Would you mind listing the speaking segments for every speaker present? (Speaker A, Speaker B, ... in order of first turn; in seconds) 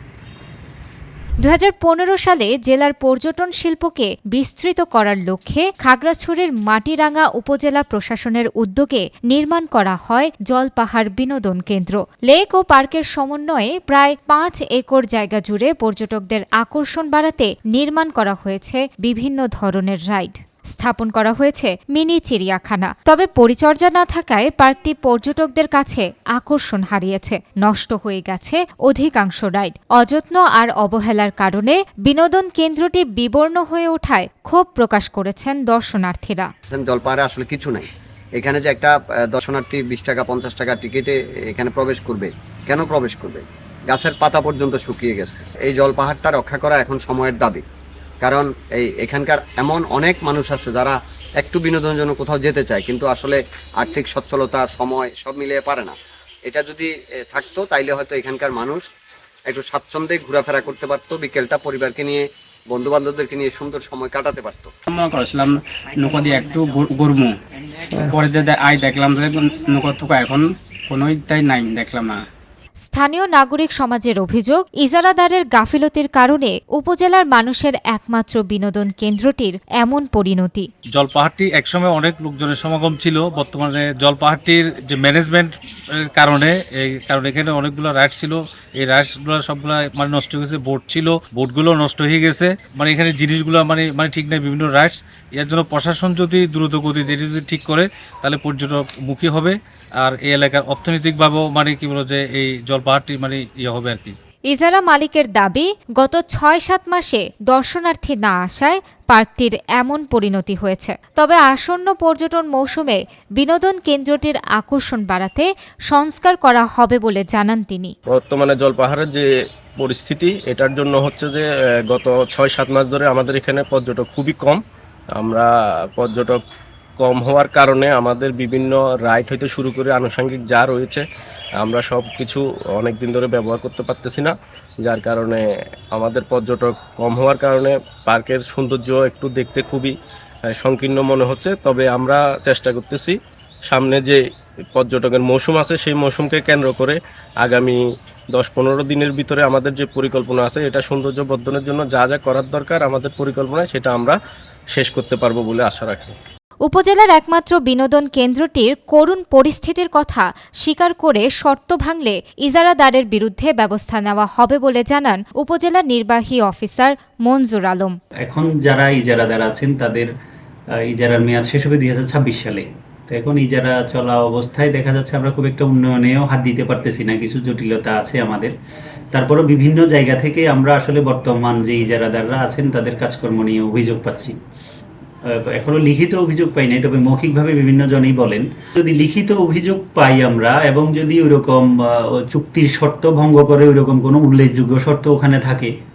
Speaker A: 1.4-36.5, 72.8-80.7, 104.5-117.9, 156.6-167.9
Speaker B: 36.7-47.6, 48.2-55.9, 56.5-58.8, 59.5-64.7
Speaker C: 64.9-67.4, 68.0-72.2
Speaker D: 80.9-104.1
Speaker E: 118.1-119.3, 119.8-124.6, 125.2-126.4, 127.0-131.0, 131.6-139.9, 140.5-144.2, 144.7-147.8, 148.3-154.2, 154.7-156.2
Speaker F: 168.3-170.1, 170.9-178.5, 179.1-184.3, 185.3-195.7